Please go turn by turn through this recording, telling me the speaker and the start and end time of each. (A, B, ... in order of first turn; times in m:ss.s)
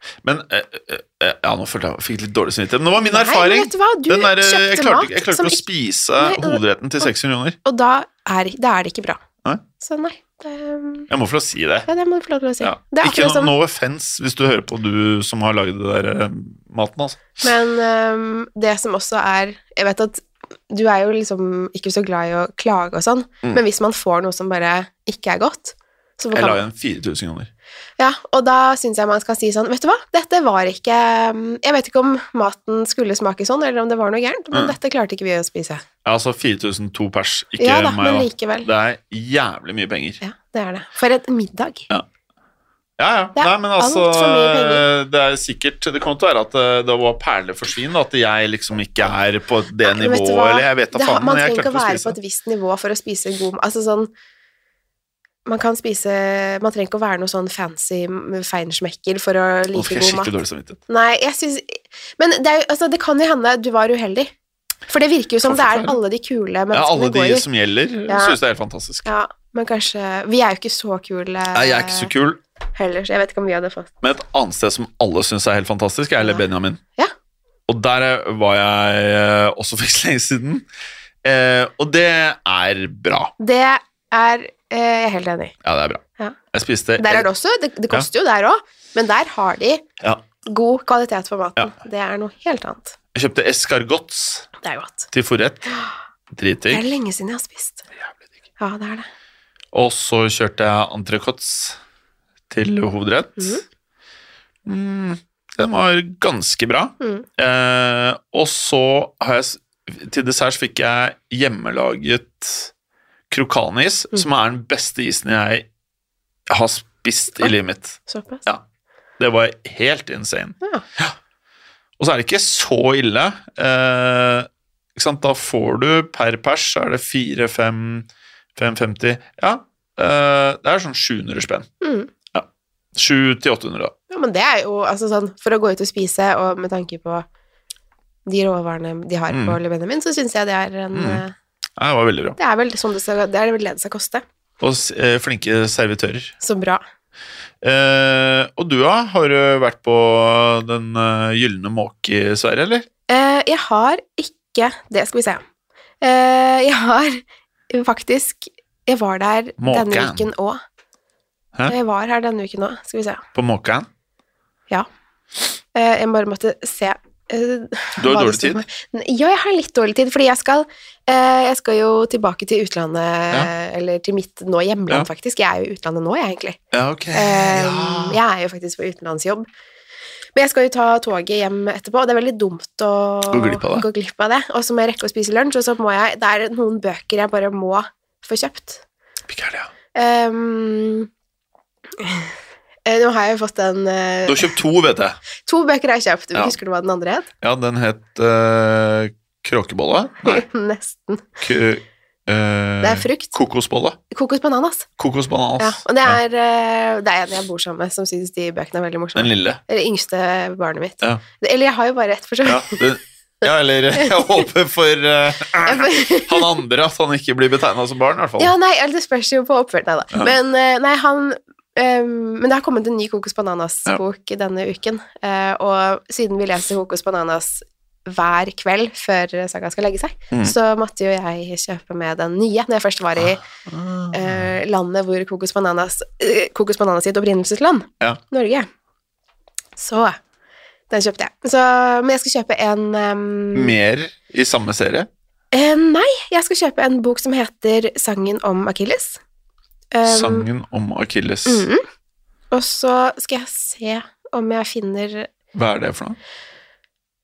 0:00.2-0:07.6 A
0:03.0-0:05.6 B
0:06.2-0:07.1 B
0:07.6-0:09.2 B
0:09.8-0:11.1 B
0:11.1-0:11.9 A
0:11.9-0:13.5 B
0:12.6-0:17.4 A
0:17.4-0:26.6 B
0:26.3-0:27.5 A
0:28.0-0:35.8 B
0:36.0-0:40.2 A
0:37.6-0:38.7 B
0:40.2-0:41.9 B
0:43.0-0:52.2 A
0:43.4-0:44.8 B
0:49.8-0:54.1 B
0:55.4-1:00.3 B
0:59.7-1:00.8 A
1:00.9-1:04.3 B
1:04.9-1:07.4 B
1:05.4-1:06.0 A
1:06.7-1:09.0 A
1:08.1-1:08.4 B
1:09.0-1:12.1 B
1:11.5-1:12.4 A
1:12.8-1:13.9 B
1:14.0-1:16.8 A
1:17.7-1:20.6 A
1:21.2-1:23.3 A
1:23.4-1:25.6 B
1:25.6-1:27.3 A
1:27.0-1:29.8 B
1:30.4-1:33.0 B
1:33.1-1:34.5 A
1:34.6-1:35.1 B
1:35.1-1:35.7 A
1:35.7-1:35.9 B
1:36.3-1:36.8 A
1:36.7-1:37.8 B
1:38.6-1:39.1 B
1:39.7-1:41.8 A
1:42.5-1:43.6 A
1:43.4-1:43.6 B
1:44.6-1:52.7 A
1:47.0-1:47.2 B
1:53.3-1:55.7 A
1:56.5-1:58.6 A
1:58.1-1:58.4 B
1:59.2-2:01.2 A
2:02.0-2:11.7 A
2:11.8-2:12.1 B
2:12.3-2:13.9 A
2:14.1-2:17.3 B
2:18.2-2:21.3 B
2:19.3-2:19.6 A
2:20.9-2:21.2 A
2:21.8-2:22.4 A
2:22.4-2:24.2 B
2:24.6-2:26.3 A
2:26.4-2:26.8 B
2:27.6-2:32.8 A
2:33.1-2:35.4 B
2:36.0-2:40.6 B
2:39.6-2:40.3 A
2:41.7-2:43.2 B
2:43.3-2:43.9 A
2:45.7-2:56.6 B
2:48.0-2:48.6 A
2:56.7-2:58.2 A
2:57.1-2:59.5 B
3:00.4-3:08.8 B
3:03.3-3:03.8 A
3:09.3-3:09.7 A
3:09.9-3:11.1 B
3:12.0-3:12.3 B
3:12.8-3:14.6 B
3:14.2-3:15.2 A
3:15.4-3:17.3 B
3:17.4-3:20.4 A
3:20.2-3:21.4 B
3:21.4-3:24.0 A
3:22.8-3:23.4 B
3:24.1-3:24.9 B
3:25.0-3:26.2 A
3:25.6-3:32.9 B
3:29.2-3:29.6 A
3:32.4-3:38.5 A
3:34.0-3:34.4 B
3:35.6-3:36.6 B
3:38.4-3:53.4 B
3:53.2-3:54.5 A
3:54.1-3:58.7 B
3:59.8-4:00.2 B
4:00.9-4:03.7 B
4:03.5-4:05.1 A
4:05.5-4:09.2 B
4:09.9-4:10.5 B
4:10.0-4:11.7 A
4:11.4-4:11.8 B
4:12.5-4:15.3 B
4:15.5-4:16.2 A